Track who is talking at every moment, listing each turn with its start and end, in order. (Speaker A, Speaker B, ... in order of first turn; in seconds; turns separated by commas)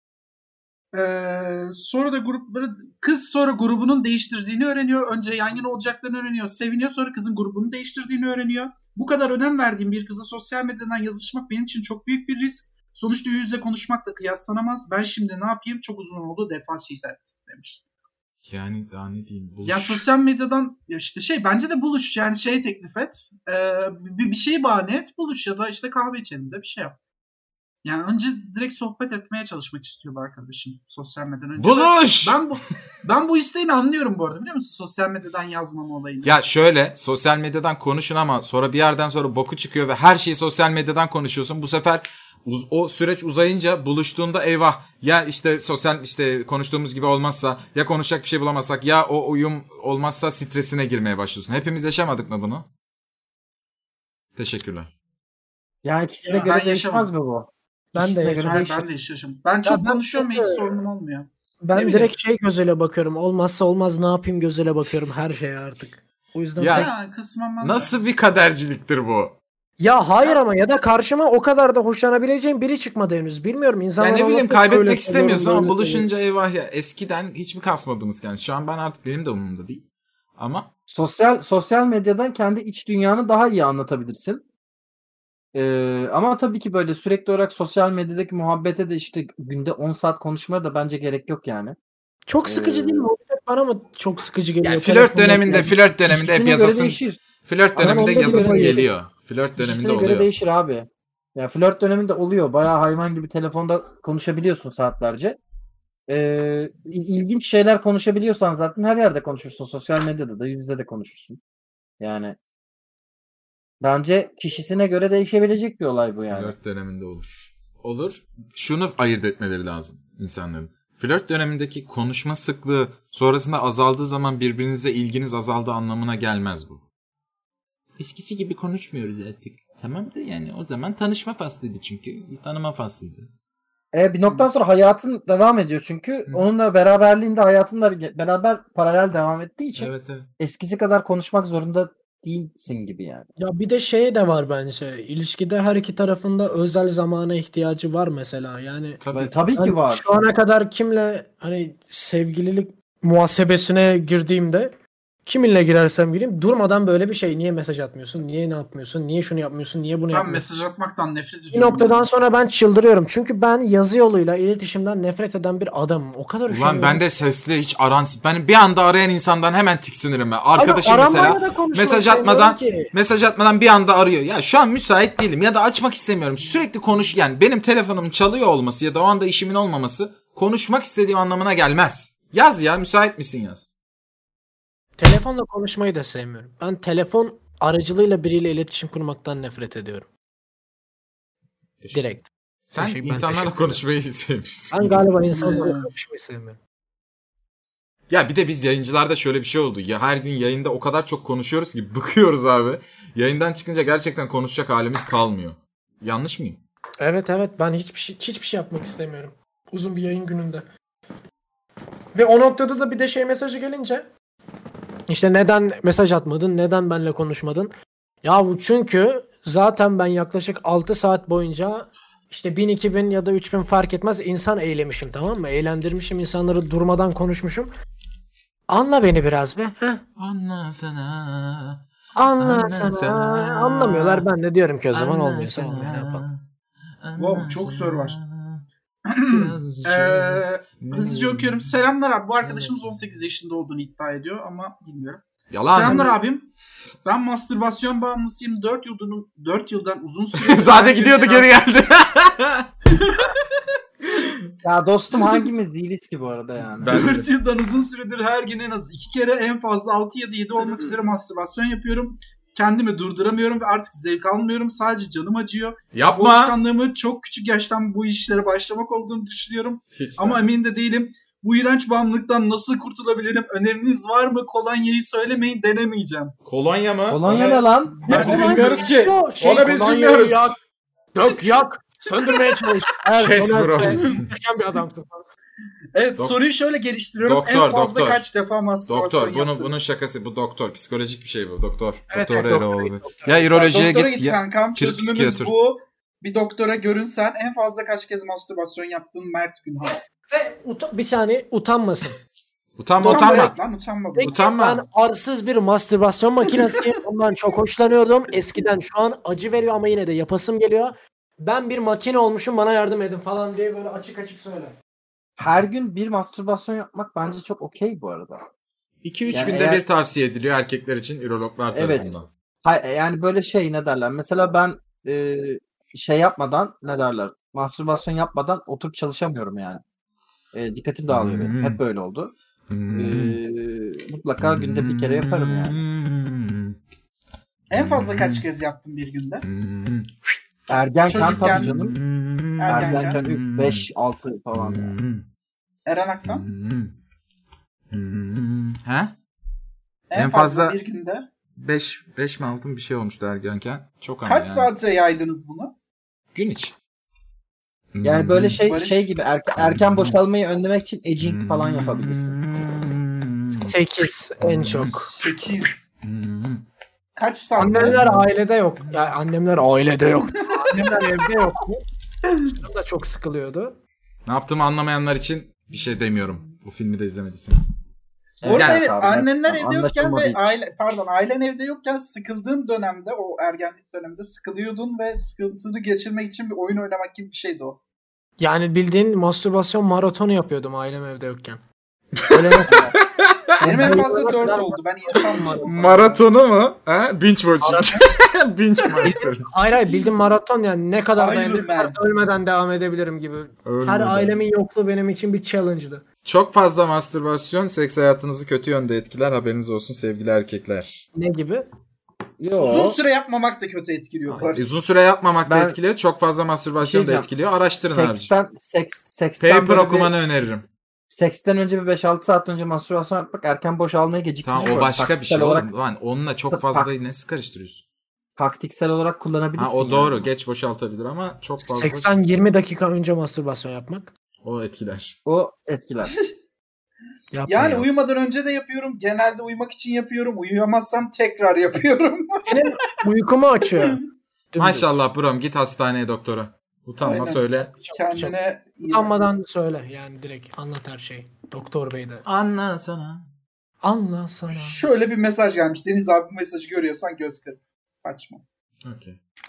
Speaker A: 0.9-17.8, Speaker B: 18.4-20.1, Speaker A: 19.6-27.0, Speaker A: 27.8-36.3, Speaker B: 31.6-32.4, Speaker B: 36.2-52.7, Speaker B: 54.4-54.9, Speaker C: 55.8-58.9, Speaker A: 56.2-57.1, Speaker D: 57.9-58.6, Speaker A: 58.3-62.1, Speaker D: 59.6-60.7, Speaker D: 61.6-66.9, Speaker B: 66.6-66.9, Speaker A: 66.7-68.0, Speaker B: 67.6-69.3, Speaker D: 69.8-76.1, Speaker B: 74.0-79.8, Speaker B: 80.4-80.7, Speaker C: 80.9-84.4, Speaker C: 85.5-91.8, Speaker D: 92.3-95.7, Speaker C: 92.4-93.1, Speaker B: 94.6-100.3, Speaker C: 96.0-97.2, Speaker C: 97.7-98.9, Speaker D: 97.8-98.9, Speaker C: 99.6-105.4, Speaker C: 106.1-111.4, Speaker C: 112.0-112.4, Speaker C: 113.8-116.5, Speaker B: 116.3-126.8, Speaker B: 128.0-133.3, Speaker C: 133.9-143.3, Speaker B: 139.8-140.3, Speaker D: 143.4-149.0, Speaker B: 149.0-149.4, Speaker C: 149.1-150.2, Speaker D: 149.5-154.7, Speaker D: 155.2-160.4, Speaker A: 160.1-162.1, Speaker D: 161.5-167.0, Speaker B: 166.5-183.7, Speaker D: 170.6-172.9, Speaker D: 185.0-190.1, Speaker D: 191.9-193.8, Speaker B: 192.7-195.1, Speaker D: 194.7-196.6, Speaker A: 195.3-195.9, Speaker B: 198.1-206.6, Speaker D: 207.0-210.6, Speaker D: 212.1-214.1, Speaker D: 215.1-217.7, Speaker D: 218.2-227.7, Speaker D: 228.7-230.0, Speaker B: 230.2-231.8, Speaker D: 232.1-236.2, Speaker B: 232.4-234.2, Speaker B: 234.9-236.4, Speaker B: 237.0-238.6, Speaker A: 237.2-238.2, Speaker A: 239.1-246.5, Speaker B: 239.3-241.7, Speaker B: 242.4-242.8, Speaker B: 245.5-246.1, Speaker A: 247.0-251.5, Speaker B: 250.3-252.7, Speaker A: 252.9-253.6, Speaker C: 254.6-257.0, Speaker B: 256.8-257.3, Speaker A: 256.8-276.3, Speaker B: 265.9-266.6, Speaker B: 269.9-270.5, Speaker B: 276.4-280.6, Speaker C: 277.1-278.6, Speaker A: 277.2-279.0, Speaker D: 278.1-280.6, Speaker D: 281.1-285.2, Speaker B: 283.1-284.3, Speaker A: 283.8-284.2, Speaker A: 285.9-289.8, Speaker B: 287.2-288.2, Speaker B: 288.9-295.5, Speaker D: 292.1-293.6, Speaker A: 293.5-300.0, Speaker D: 299.9-302.2, Speaker B: 302.8-303.6, Speaker D: 303.0-303.5, Speaker A: 303.0-304.4, Speaker D: 304.1-314.7, Speaker B: 304.2-304.8, Speaker C: 315.4-318.4, Speaker B: 319.0-322.3, Speaker C: 319.3-319.8, Speaker C: 321.7-329.8, Speaker C: 330.5-332.3, Speaker B: 331.1-331.8, Speaker B: 332.7-333.4, Speaker C: 332.9-335.8, Speaker B: 334.4-336.8, Speaker A: 337.7-339.4, Speaker B: 337.7-338.4, Speaker B: 339.4-340.1, Speaker C: 340.7-342.0, Speaker A: 341.1-341.7, Speaker B: 341.1-343.8, Speaker A: 342.6-343.2, Speaker C: 342.7-344.9, Speaker B: 344.5-345.2, Speaker A: 345.9-346.5, Speaker B: 346.2-346.9, Speaker B: 347.9-349.1, Speaker A: 350.1-351.2, Speaker B: 350.1-350.8, Speaker B: 351.6-354.7, Speaker A: 354.2-355.7, Speaker B: 356.3-356.7, Speaker B: 357.9-358.6, Speaker C: 358.0-362.4, Speaker A: 358.6-359.1, Speaker B: 359.6-360.2, Speaker B: 361.2-363.7, Speaker D: 363.6-365.1, Speaker B: 364.4-365.3, Speaker A: 365.1-365.8, Speaker B: 366.0-366.6, Speaker A: 367.1-368.0, Speaker D: 367.6-371.8, Speaker B: 367.6-368.3, Speaker A: 370.3-371.3, Speaker A: 372.2-372.5, Speaker D: 372.5-373.7, Speaker B: 374.2-377.7, Speaker C: 378.4-380.6, Speaker A: 378.4-387.8, Speaker B: 378.4-378.8, Speaker D: 388.4-391.6, Speaker B: 392.3-392.7, Speaker C: 392.3-392.9, Speaker C: 393.6-394.1, Speaker A: 393.6-396.2, Speaker D: 393.6-395.7, Speaker B: 395.6-399.5, Speaker D: 397.6-398.1, Speaker D: 399.0-406.0, Speaker A: 401.2-402.0, Speaker B: 403.6-404.4, Speaker B: 406.2-411.0, Speaker D: 411.1-411.7, Speaker C: 412.4-413.0, Speaker A: 412.6-414.6, Speaker B: 414.3-418.3, Speaker C: 415.4-415.8, Speaker C: 416.8-417.3, Speaker C: 417.8-420.1, Speaker B: 419.4-420.6, Speaker C: 421.1-425.7, Speaker B: 424.4-427.8, Speaker C: 426.5-426.9, Speaker C: 428.4-430.3, Speaker B: 429.6-432.1, Speaker D: 431.6-434.1, Speaker B: 434.4-435.2, Speaker C: 435.2-436.1, Speaker D: 437.3-437.9, Speaker A: 437.4-442.7, Speaker D: 442.4-444.0, Speaker D: 444.5-445.0, Speaker B: 444.6-447.7, Speaker A: 447.0-449.2, Speaker D: 447.8-448.4, Speaker D: 448.9-452.2, Speaker B: 452.2-453.2, Speaker D: 453.8-454.8, Speaker A: 454.5-458.4, Speaker B: 458.8-459.2